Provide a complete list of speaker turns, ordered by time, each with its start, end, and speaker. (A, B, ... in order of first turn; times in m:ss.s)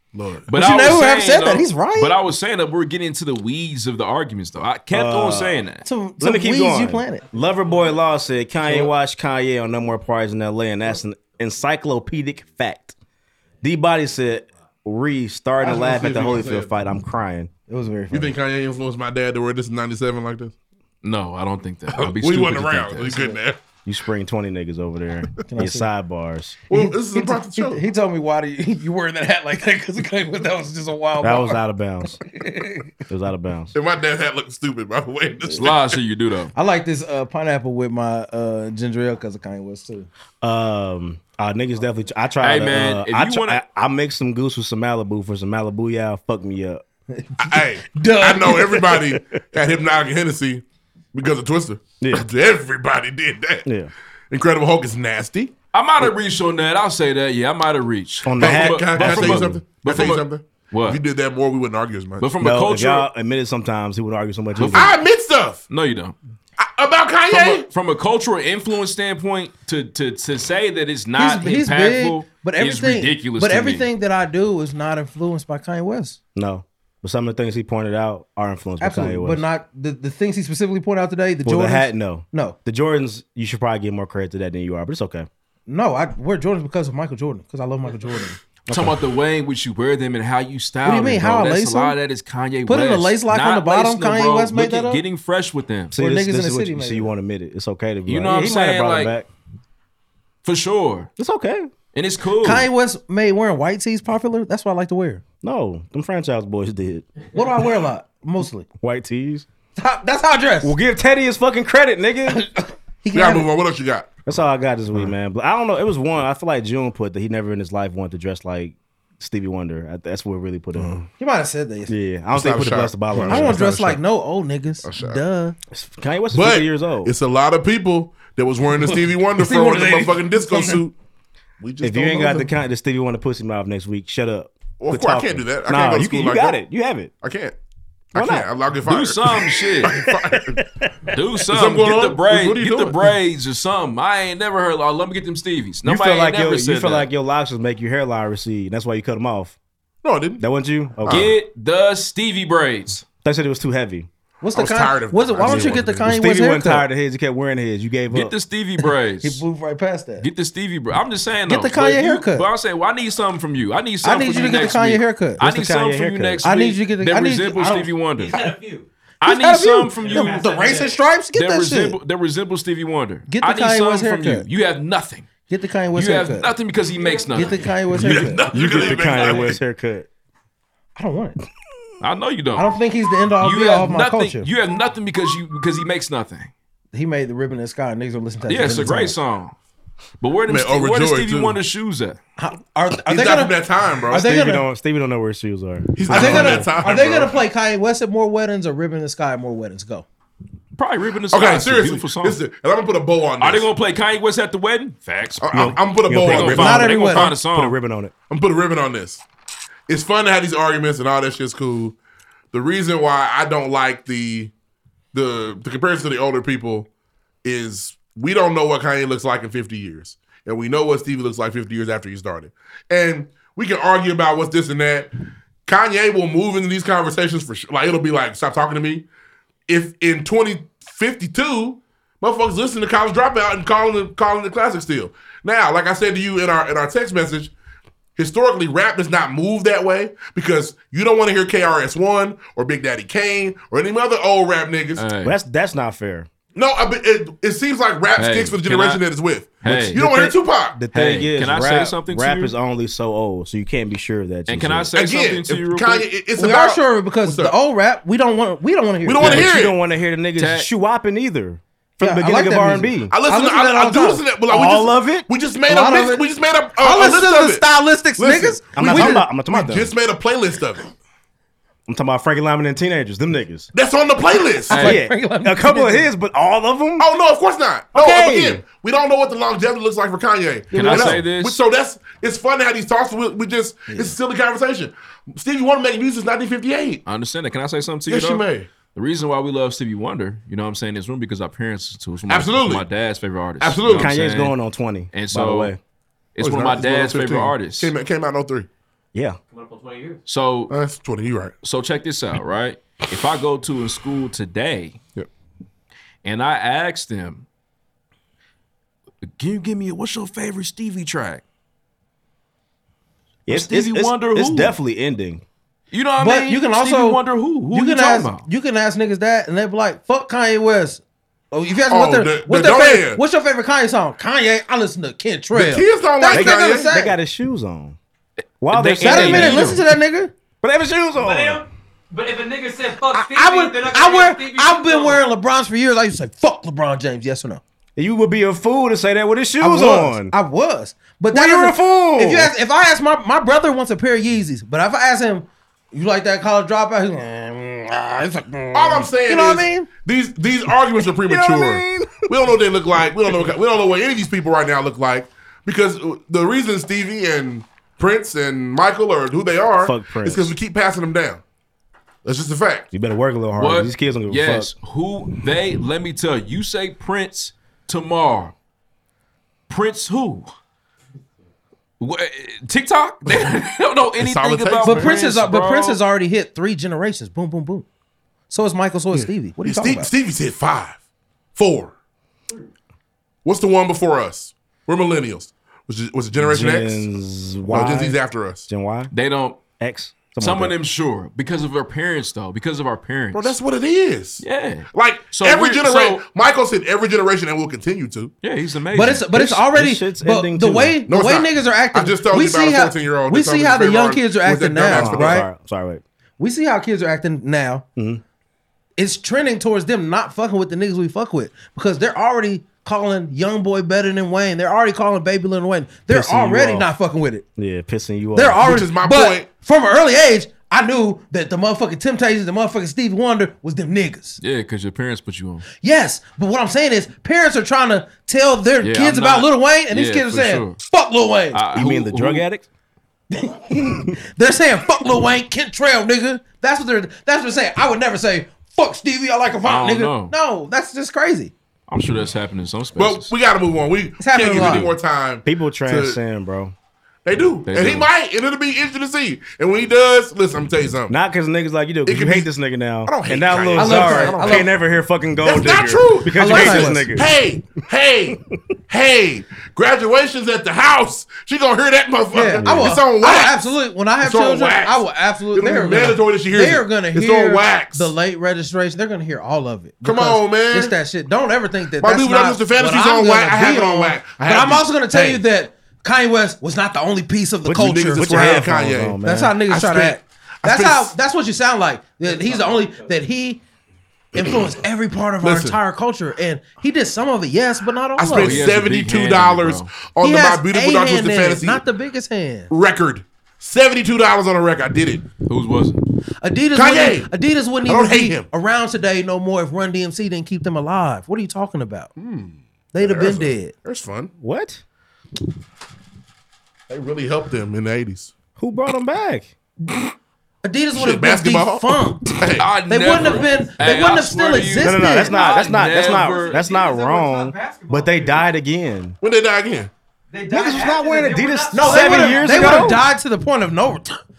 0:00.1-0:00.5 A
0:00.5-0:05.8 B
0:00.5-0:02.1 C
0:04.9-0:05.6 D
0:05.8-0:07.3 C
0:06.2-0:13.0 D
0:07.6-0:08.0 E
0:08.6-0:08.9 C
0:13.6-0:17.5 D
0:15.6-0:16.7 A
0:17.7-0:18.3 C
0:18.1-0:20.5 A
0:21.0-0:23.1 B
0:21.9-0:23.6 A
0:23.0-0:23.4 C
0:23.8-0:26.6 D
0:25.5-0:25.9 C
0:26.7-0:27.8 A
0:26.7-0:31.6 C
0:31.2-0:32.2 D
0:32.1-0:32.9 C
0:33.1-0:33.7 D
0:33.7-0:36.0 A
0:35.5-0:36.5 B
0:36.6-0:40.1 C
0:40.4-0:46.8 D
0:42.4-0:43.6 B
0:47.2-0:49.0 C
0:47.4-0:50.6 A
0:51.1-0:53.7 A
0:52.0-0:52.2 D
0:53.6-0:53.9 D
0:54.3-0:55.5 A
0:55.7-1:01.0 B
0:58.2-0:59.6 D
0:58.4-1:02.3 A
1:02.2-1:03.1 B
1:02.4-1:04.9 D
1:04.6-1:04.9 B
1:04.7-1:05.6 A
1:05.7-1:06.2 B
1:06.6-1:07.7 A
1:07.3-1:13.9 B
1:11.2-1:16.2 C
1:16.4-1:19.4 D
1:18.8-1:22.6 C
1:21.4-1:25.3 D
1:25.7-1:28.4 C
1:28.7-1:29.0 D
1:28.7-1:36.0 B
1:30.8-1:32.0 C
1:32.7-1:35.0 C
1:35.9-1:39.3 D
1:36.0-1:37.1 C
1:38.1-1:39.1 B
1:40.4-1:41.1 B
1:41.2-1:41.7 D
1:41.9-1:42.7 B
1:42.4-1:45.2 C
1:45.4-1:47.1 D
1:47.3-1:48.7 C
1:48.8-1:49.5 D
1:49.8-1:50.7 C
1:50.6-1:52.4 D
1:52.3-1:53.5 C
1:53.1-1:54.1 A
1:54.3-2:01.0 D
2:00.8-2:01.1 A
2:01.2-2:01.9 C
2:01.9-2:04.0 D
2:02.3-2:03.6 A
2:03.2-2:05.6 C
2:04.8-2:05.2 A
2:05.7-2:07.1 D
2:06.3-2:10.9 A
2:08.8-2:10.8 C
2:11.6-2:12.5 A
2:11.8-2:17.1 D
2:14.8-2:16.6 A
2:17.2-2:17.6 A
2:18.1-2:20.6 A
2:18.2-2:18.5 D
2:18.9-2:19.9 B
2:19.9-2:21.2 D
2:21.1-2:27.1 B
2:21.5-2:23.2 A
2:25.8-2:29.6 D
2:30.0-2:30.4 A
2:30.4-2:31.3 D
2:31.0-2:31.3 A
2:31.1-2:33.0 B
2:33.1-2:34.1 D
2:34.4-2:36.8 C
2:34.6-2:36.1 A
2:35.4-2:38.3 D
2:38.1-2:39.4 B
2:39.2-2:40.3 C
2:40.2-2:48.5 B
2:41.5-2:42.5 C
2:44.0-2:45.4 C
2:45.4-2:46.4 D
2:46.4-2:47.9 C
2:48.2-2:48.9 E
2:49.2-2:50.5 B
2:49.2-2:52.0 C
2:50.0-2:51.0 E
2:51.3-2:55.3 B
2:53.3-2:54.5 C
2:55.5-2:56.5 C
2:56.0-2:57.6 B
2:57.0-2:57.7 E
2:57.4-2:58.5 C
2:57.9-2:59.6 A
2:58.5-3:00.1 D
3:01.0-3:01.4 C
3:02.0-3:02.7 B
3:02.6-3:04.5 C
3:03.4-3:06.5 B
3:06.9-3:09.2 C
3:08.5-3:09.6 B
3:10.2-3:12.2 B
3:10.5-3:11.6 A
3:12.4-3:13.6 C
3:13.1-3:14.3 A
3:14.1-3:14.6 C
3:14.1-3:16.7 D
3:16.0-3:17.4 A
3:16.1-3:20.0 C
3:20.8-3:22.4 B
3:21.3-3:23.7 A
3:23.4-3:25.7 B
3:25.4-3:27.2 A
3:25.5-3:28.1 D
3:26.3-3:27.8 B
3:26.5-3:27.3 C
3:28.3-3:29.2 A
3:29.9-3:32.0 A
3:32.5-3:34.5 A
3:35.1-3:36.9 A
3:37.4-3:45.1 A
3:45.7-3:49.0 A
3:49.7-3:57.5 A
3:58.2-4:05.0 A
4:05.0-4:05.4 B
4:05.2-4:06.3 D
4:06.6-4:10.8 A
4:08.2-4:09.0 B
4:09.6-4:10.0 B
4:09.7-4:14.9 D
4:10.9-4:12.5 B
4:14.5-4:16.1 B
4:15.0-4:17.5 A
4:16.4-4:19.5 C
4:19.0-4:19.8 A
4:19.2-4:23.1 D
4:20.4-4:20.7 B
4:22.0-4:24.2 C
4:23.1-4:27.6 A
4:24.5-4:25.3 D
4:25.7-4:26.2 C
4:26.8-4:29.3 C
4:28.2-4:30.8 A
4:28.7-4:29.9 D
4:31.9-4:33.7 D
4:33.7-4:34.8 A
4:34.7-4:36.1 C
4:34.7-4:35.0 B
4:34.8-4:37.1 D
4:37.0-4:47.0 A
4:37.9-4:38.6 D
4:40.7-4:41.6 B
4:40.7-4:41.1 C
4:40.9-4:41.2 D
4:43.9-4:44.2 C
4:47.1-4:54.6 B
4:48.1-4:48.7 A
4:52.3-4:52.8 A
4:53.6-4:54.1 A
4:53.9-4:55.8 D
4:55.1-4:55.7 B
4:56.4-4:57.9 B
4:56.4-4:58.7 A
4:59.5-5:00.2 E
5:00.3-5:00.7 B
5:00.7-5:01.5 A
5:01.6-5:05.0 B
5:06.2-5:07.5 B
5:09.4-5:11.4 B
5:13.5-5:14.7 B
5:13.5-5:15.4 D
5:15.9-5:18.4 B
5:16.2-5:27.1 C
5:21.9-5:23.2 A
5:25.5-5:26.9 A
5:26.3-5:28.0 D
5:28.6-5:29.8 D
5:28.7-5:29.8 B
5:29.0-5:30.3 C
5:30.6-5:31.6 D
5:31.2-5:35.2 E
5:33.1-5:37.6 C
5:38.0-5:40.3 D
5:39.6-5:49.9 C
5:41.3-5:42.5 D
5:48.7-6:01.4 A
5:51.2-5:52.3 D
5:59.8-6:00.5 D
6:02.2-6:02.9 A
6:02.9-6:04.7 D
6:03.6-6:08.6 B
6:09.7-6:10.5 B
6:12.0-6:16.0 B
6:14.2-6:15.2 A
6:14.8-6:17.9 C
6:18.5-6:20.1 C
6:19.1-6:21.0 A
6:21.6-6:21.9 A
6:23.4-6:27.1 A
6:26.4-6:29.1 D
6:27.7-6:28.7 A
6:29.1-6:29.6 B
6:29.8-6:30.8 D
6:30.4-6:33.6 B
6:33.3-6:38.3 A
6:34.4-6:36.2 B
6:38.4-6:39.3 B
6:38.9-6:45.5 C
6:39.3-6:41.0 D
6:41.1-6:45.4 A
6:44.8-6:46.0 D
6:46.4-6:47.9 C
6:48.0-6:48.2 D
6:49.0-6:57.5 C
6:56.1-6:56.9 D
6:57.6-6:58.8 D
6:58.3-7:04.4 C
6:58.6-6:59.5 A
7:04.4-7:05.7 B
7:05.8-7:11.6 C
7:08.8-7:10.8 B
7:11.5-7:12.4 B
7:11.7-7:12.6 D
7:13.3-7:21.5 C
7:19.6-7:20.3 B
7:21.9-7:23.3 B
7:23.0-7:26.2 A
7:24.2-7:24.9 C
7:24.4-7:24.9 B
7:25.4-7:26.7 D
7:27.2-7:31.1 A
7:27.7-7:28.1 B
7:31.1-7:37.3 D
7:32.1-7:32.5 A
7:33.0-7:34.7 A
7:33.8-7:34.7 C
7:35.4-7:43.6 A
7:36.3-7:37.1 C
7:42.3-7:58.7 C
7:42.6-7:43.0 D
7:44.2-7:45.0 A
7:45.5-7:48.1 A
7:50.0-7:50.9 A
7:52.0-7:55.4 A
7:57.6-7:59.6 D
7:57.8-8:01.1 A
7:59.2-8:03.6 C
8:02.2-8:03.2 E
8:04.4-8:08.7 C
8:05.4-8:05.8 A
8:08.2-8:11.8 A
8:08.4-8:09.9 B
8:10.2-8:12.7 C
8:12.7-8:15.2 A
8:15.5-8:16.0 B
8:16.4-8:22.1 C
8:16.7-8:17.3 A
8:17.8-8:18.5 A
8:22.2-8:24.3 A
8:22.9-8:23.7 C
8:24.4-8:24.8 D
8:26.9-8:28.3 A
8:28.6-8:29.5 D
8:30.6-8:35.5 C
8:31.0-8:33.2 A
8:32.6-8:36.6 B
8:34.8-8:39.2 D
8:35.2-8:38.5 E
8:39.2-8:39.9 A
8:40.3-8:43.0 E
8:40.5-8:43.1 D
8:41.7-8:44.2 C